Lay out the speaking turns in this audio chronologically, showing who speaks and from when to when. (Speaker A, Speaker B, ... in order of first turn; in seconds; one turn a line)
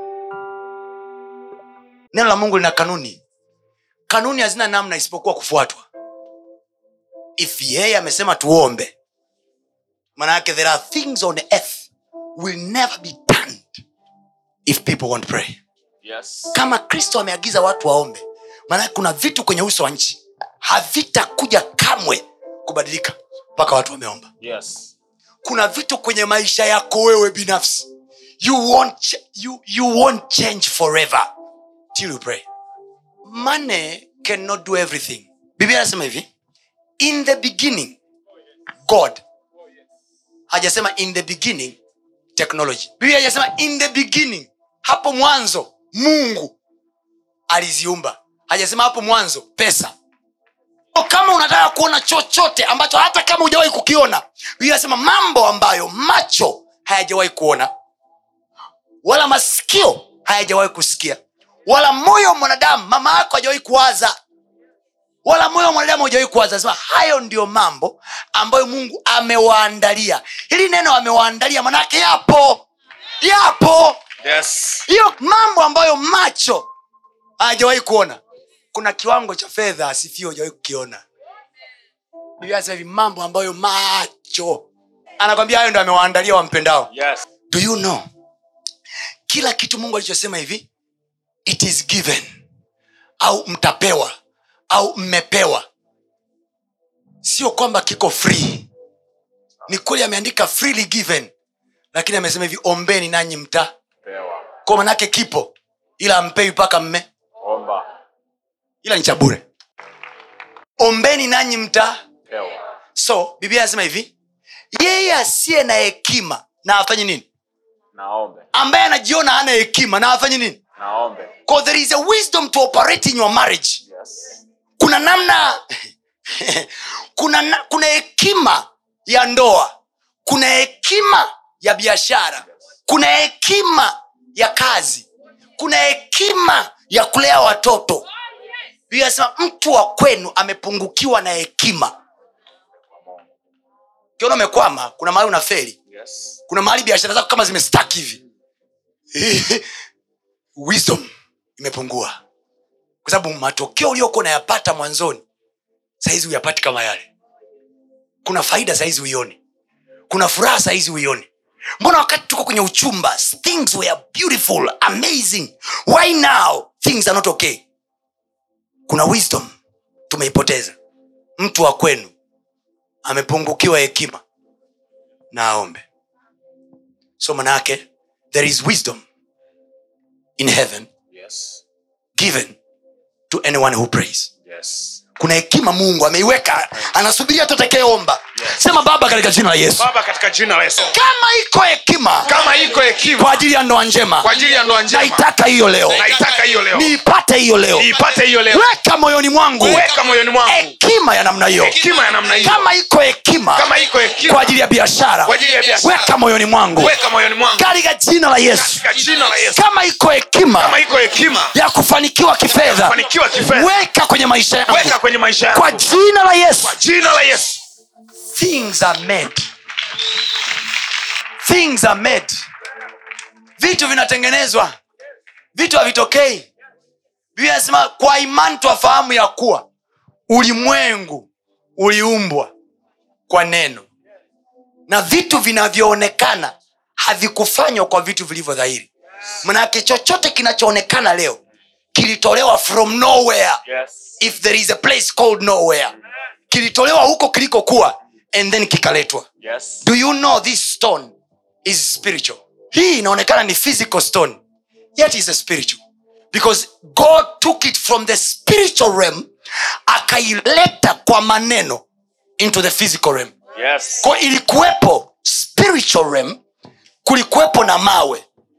Speaker A: 2.1-3.2
Speaker A: 4.1-5.8
Speaker A: 7.4-8.9
Speaker A: 10.2-13.8
Speaker A: 14.7-15.6
Speaker B: 16.0-16.6
Speaker A: 16.5-24.3
Speaker B: 24.4-24.9
Speaker A: 25.4-27.9
Speaker A: 28.4-31.3
Speaker A: 31.9-32.5
Speaker A: 33.2-36.3
Speaker A: 37.0-38.0
Speaker A: 38.9-39.2
Speaker A: 40.5-41.8
Speaker A: 42.4-46.5
Speaker A: 47.5-49.9
Speaker A: 50.9-57.7
Speaker A: 59.0-64.1
Speaker A: 65.2-72.7
Speaker A: 73.2-74.0
Speaker B: 74.2-74.8
Speaker A: 74.9-76.7
Speaker A: 77.4-78.2
Speaker A: 78.7-81.0
Speaker A: 82.4-84.7
Speaker A: 85.2-86.9
Speaker B: 86.9-87.2
Speaker A: 87.5-88.0
Speaker A: 89.3-90.7
Speaker A: 91.5-92.3
Speaker A: 93.2-94.1
Speaker A: 94.7-95.7
Speaker A: 97.2-98.7
Speaker A: 99.7-101.3
Speaker A: 101.9-103.7
Speaker B: 104.1-104.5
Speaker A: 104.7-107.0
Speaker B: 107.4-107.8
Speaker A: 108.8-109.4
Speaker A: 110.8-112.0
Speaker B: 112.3-112.6
Speaker A: 113.0-114.1
Speaker A: 114.7-117.3
Speaker B: 117.9-118.5
Speaker A: 118.5-120.6
Speaker B: 120.8-121.3
Speaker A: 121.5-123.8
Speaker B: 123.9-124.4
Speaker A: 124.8-125.6
Speaker A: 126.3-129.7
Speaker A: 130.2-138.1
Speaker A: 138.9-141.9
Speaker A: 144.2-145.8
Speaker B: 145.9-146.4
Speaker A: 146.5-148.2
Speaker A: 149.1-149.7
Speaker A: 150.6-152.2
Speaker A: 153.0-155.2
Speaker A: 156.0-157.1
Speaker A: 158.2-159.4
Speaker A: 160.1-161.3
Speaker A: 161.8-167.6
Speaker A: 168.9-169.5
Speaker A: 170.1-170.8
Speaker A: 171.4-172.1
Speaker A: 173.0-174.2
Speaker A: 175.3-175.8
Speaker A: 177.2-179.0
Speaker A: 180.4-180.9
Speaker B: 181.1-181.6
Speaker A: 182.2-182.6
Speaker A: 183.3-184.3
Speaker B: 184.5-185.0
Speaker A: 185.2-189.9
Speaker B: 189.8-191.0
Speaker A: 190.8-192.3
Speaker B: 192.2-193.4
Speaker A: 193.2-194.3
Speaker B: 194.2-195.2
Speaker A: 194.9-196.1
Speaker B: 195.9-196.9
Speaker A: 196.7-198.0
Speaker B: 197.7-198.7
Speaker A: 198.5-199.9
Speaker B: 199.6-200.7
Speaker A: 200.5-201.8
Speaker B: 201.6-202.7
Speaker A: 202.4-203.7
Speaker B: 203.6-204.5
Speaker A: 204.3-206.9
Speaker B: 205.2-206.1
Speaker B: 206.8-207.6
Speaker A: 207.5-208.8
Speaker B: 208.5-209.6
Speaker A: 209.5-210.8
Speaker B: 210.6-211.5
Speaker A: 211.5-214.9
Speaker B: 212.5-213.7
Speaker B: 214.7-215.8
Speaker A: 215.5-216.8
Speaker B: 216.6-217.6
Speaker A: 218.3-219.5
Speaker A: 221.4-222.3
Speaker A: 223.6-224.7
Speaker A: 225.5-226.5
Speaker A: 227.3-229.7
Speaker A: 230.3-232.5
Speaker A: 233.3-233.9
Speaker A: 234.9-238.9
Speaker A: 239.4-241.4
Speaker A: 241.9-243.6
Speaker B: 243.7-244.2
Speaker A: 244.2-245.9
Speaker A: 246.5-249.3
Speaker B: 249.4-249.8
Speaker A: 249.8-254.4
Speaker A: 254.9-255.8
Speaker A: 256.3-259.3
Speaker A: 259.9-261.8
Speaker A: 262.4-263.3
Speaker B: 263.6-264.1
Speaker A: 264.0-266.4
Speaker A: 267.0-268.2